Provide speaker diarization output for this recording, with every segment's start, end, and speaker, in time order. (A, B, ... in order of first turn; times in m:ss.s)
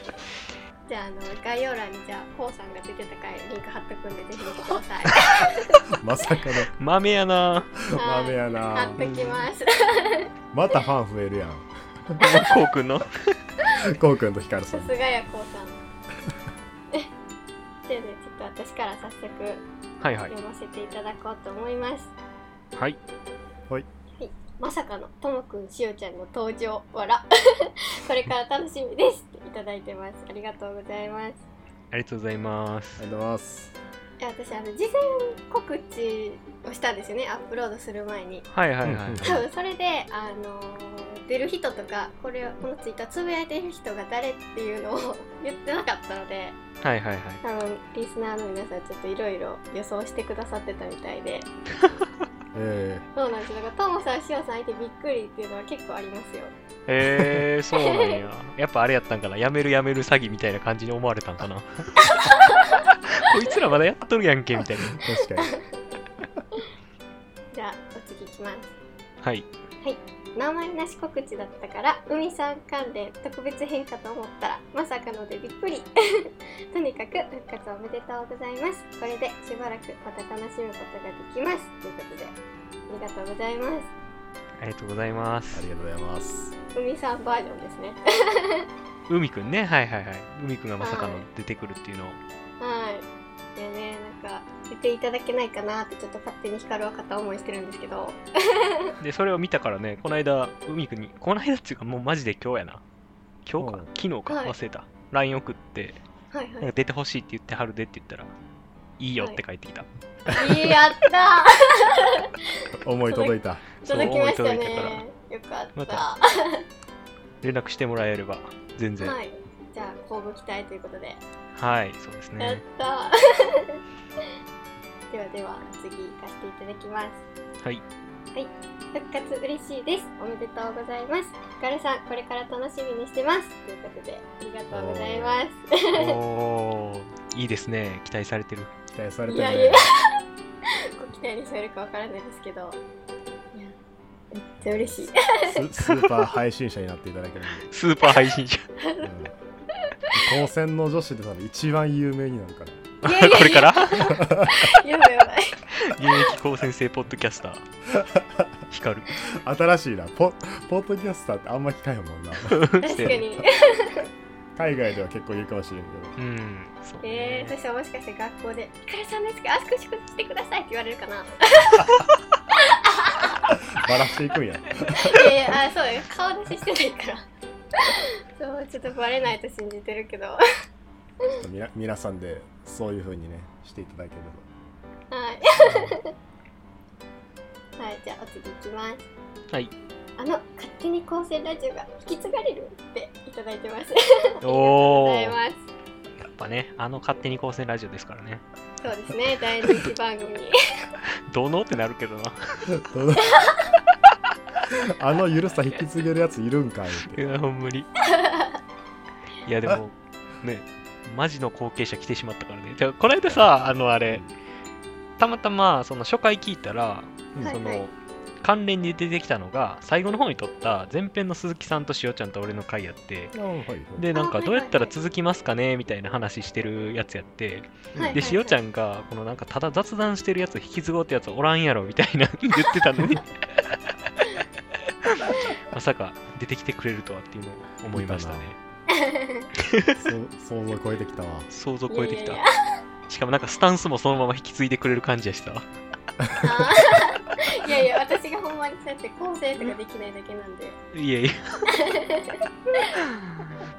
0:00.8-0:05.8 A
0:05.9-0:06.7 B
0:06.8-0:07.7 C
0:07.8-0:09.2 B
0:07.9-0:10.3 A
0:09.0-0:09.3 C
0:10.5-0:12.2 B
0:12.2-0:13.6 C
0:13.6-0:15.0 B
0:14.7-0:15.7 A
0:17.8-0:19.6 A
0:20.0-0:20.3 C
0:20.3-0:22.1 A
0:24.2-0:31.4 A
0:31.9-0:33.0 C
0:33.0-0:33.8 B
0:34.2-0:38.5 A
0:38.5-0:39.3 C
0:38.8-0:39.4 B
0:39.2-0:46.6 A
0:46.8-0:47.4 C
0:47.4-0:51.5 A
0:52.5-0:53.0 B
0:53.2-0:56.5 A
0:56.9-1:02.2 C
0:57.1-0:57.4 B
0:57.8-0:58.2 A
1:02.3-1:02.6 A
1:02.7-1:05.1 C
1:05.0-1:05.6 B
1:07.5-1:08.7 A
1:09.2-1:09.5 C
1:09.8-1:22.3 A
1:22.9-1:23.9 A
1:24.6-1:25.7 C
1:25.5-1:26.5 B
1:26.7-1:28.6 A
1:29.1-1:32.2 C
1:30.8-1:31.2 A
1:32.6-1:38.9 A
1:39.0-1:42.8 C
1:43.4-1:46.0 C
1:43.6-1:43.9 B
1:44.3-1:44.5 A
1:46.3-1:46.7 A
1:46.6-1:48.3 C
1:49.0-1:49.9 C
1:50.3-1:52.3 A
1:52.8-1:54.1 B
1:53.1-1:56.6 A
1:53.8-1:55.0 C
1:55.8-1:56.0 C
1:57.4-1:59.2 C
1:59.0-2:01.2 A
2:01.6-2:02.6 C
2:02.4-2:03.8 A
2:05.1-2:07.2 A
2:08.3-2:16.2 A
2:14.7-2:15.4 B
2:15.9-2:18.7 C
2:18.9-2:19.9 B
2:19.3-2:20.2 A
2:21.0-2:22.8 A
2:24.3-2:25.7 A
2:24.6-2:27.6 B
2:27.7-2:28.6 C
2:28.8-2:29.1 A
2:29.0-2:29.3 B
2:30.1-2:32.8 B
2:33.0-2:34.2 C
2:33.0-2:35.6 A
2:34.0-2:34.5 B
2:35.7-2:37.6 C
2:37.9-2:38.4 B
2:38.7-2:39.2 C
2:39.2-2:43.3 B
2:42.5-2:43.2 C
2:42.8-2:44.1 A
2:44.6-2:46.2 B
2:46.2-2:47.5 C
2:47.0-2:51.9 A
2:52.9-2:53.4 A
2:53.5-2:55.4 B
2:55.1-2:57.2 A
2:58.0-3:00.4 A
3:01.4-3:04.5 B
3:05.1-3:06.1 A
3:07.8-3:09.1 A
3:10.2-3:15.6 A
3:14.4-3:15.4 C
3:16.2-3:18.4 C
3:18.8-3:20.5 A
3:19.6-3:19.9 C
3:21.3-3:22.7 C
3:22.8-3:23.4 B
3:23.2-3:23.5 A
3:24.7-3:27.2 B
3:27.1-3:27.9 C
3:28.0-3:28.6 A
3:29.4-3:34.3 C
3:35.2-3:43.3 C
3:37.4-3:37.8 A
3:43.3-3:44.1 B
3:44.0-3:53.8 C
3:44.1-3:44.9 A
3:47.9-3:48.2 B
3:48.0-3:48.6 A
3:55.0-3:58.6 C
3:57.9-3:58.5 B
3:58.9-3:59.5 A
3:59.7-4:00.0 C
4:00.0-4:01.5 B
4:01.5-4:02.4 C
4:01.9-4:02.5 A
4:03.1-4:05.6 C
4:06.4-4:10.8 A
4:10.9-4:11.7 C
4:11.7-4:12.8 A